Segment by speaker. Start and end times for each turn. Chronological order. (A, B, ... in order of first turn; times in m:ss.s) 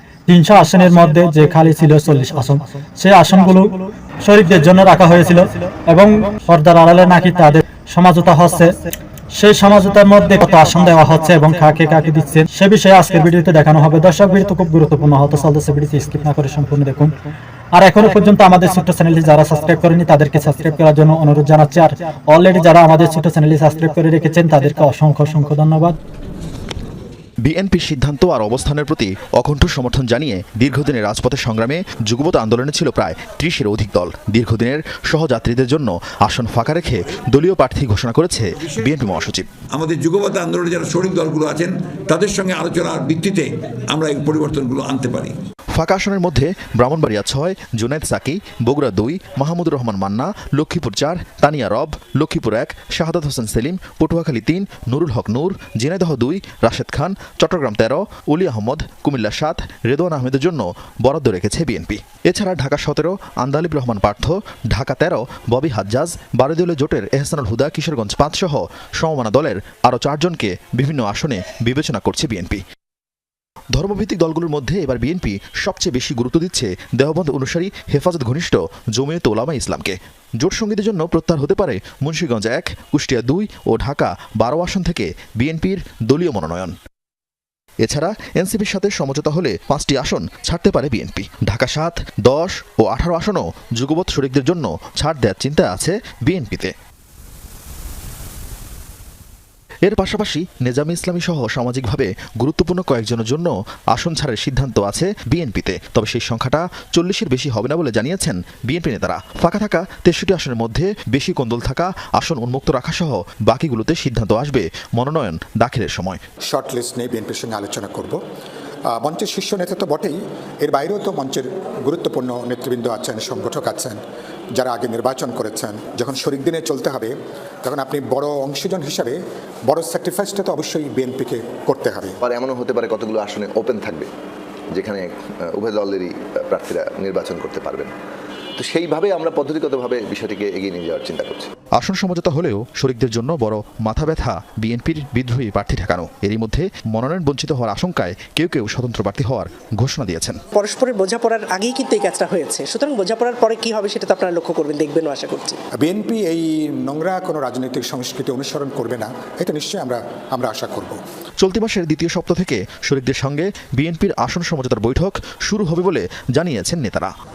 0:00.3-0:08.8 A
0:09.4-0:17.2 A
0:17.8-0:26.0 A
0:27.4-0:39.5 B
0:39.7-0:45.3 C
0:45.8-1:12.6 B
1:13.8-1:26.8 B
1:27.8-1:36.7 B
1:39.9-1:56.2 B
1:56.5-1:58.2 D
1:58.9-2:04.0 D
2:04.6-2:07.1 D
2:07.6-2:12.2 D
2:12.2-2:14.1 E
2:14.7-2:17.9 E
2:18.6-2:21.5 E
2:21.8-2:30.4 B
2:30.6-2:35.6 F
2:35.8-2:41.0 D
2:41.4-2:47.1 B